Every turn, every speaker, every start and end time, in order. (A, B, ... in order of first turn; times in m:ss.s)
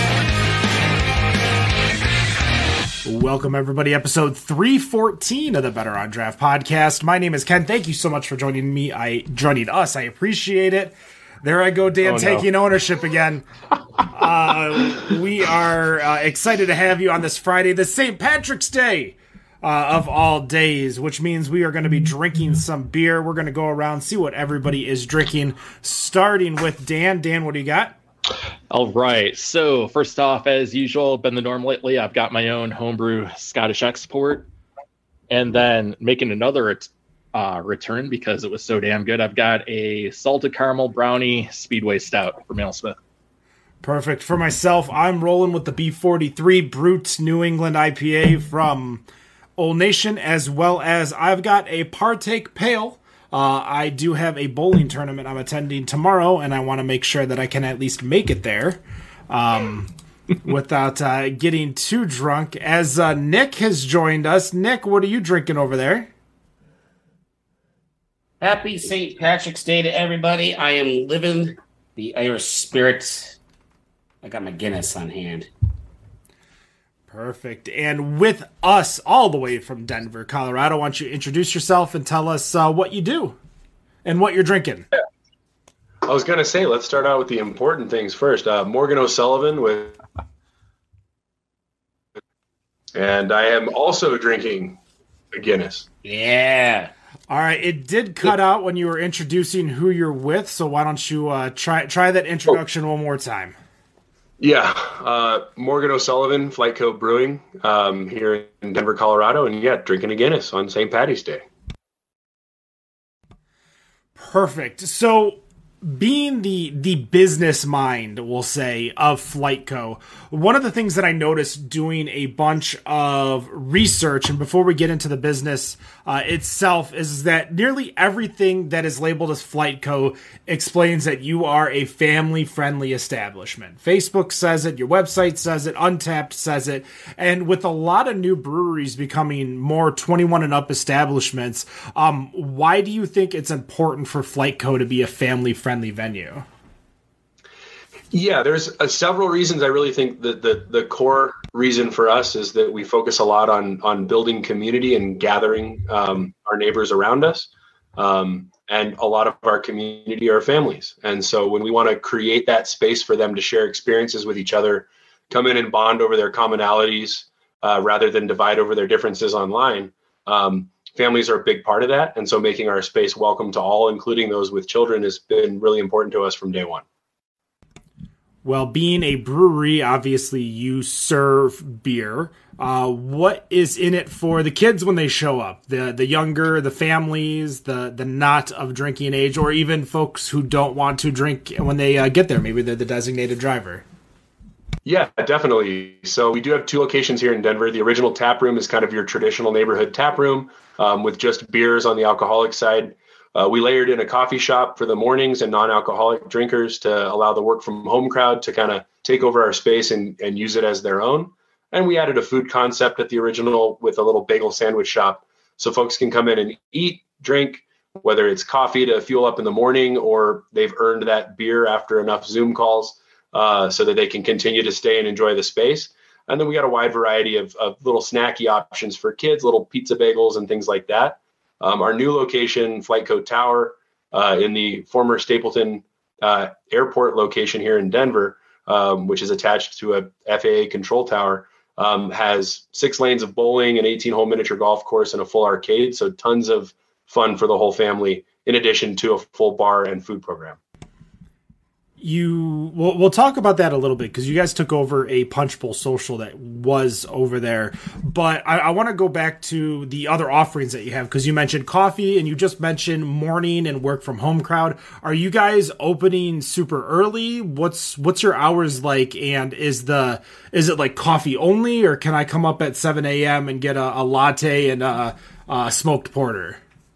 0:03.0-0:13.4 A
0:12.0-0:12.4 B
0:14.0-0:28.0 A
0:28.7-0:34.5 B
0:35.3-0:43.0 B
0:43.8-0:49.0 A
0:49.6-0:59.9 A
1:00.4-1:06.1 A
1:08.4-1:13.4 C
1:14.2-1:15.5 C
1:17.1-1:23.4 A
1:24.0-1:24.8 A
1:26.0-1:30.0 D
1:32.9-1:34.8 D
1:35.3-1:35.8 D
1:36.0-1:36.9 C
1:37.3-1:43.5 A
1:44.4-1:51.4 D
1:54.2-2:26.4 A
2:28.1-2:56.8 D
2:58.4-3:13.8 A
3:14.8-4:10.6 D
4:12.0-4:36.6 A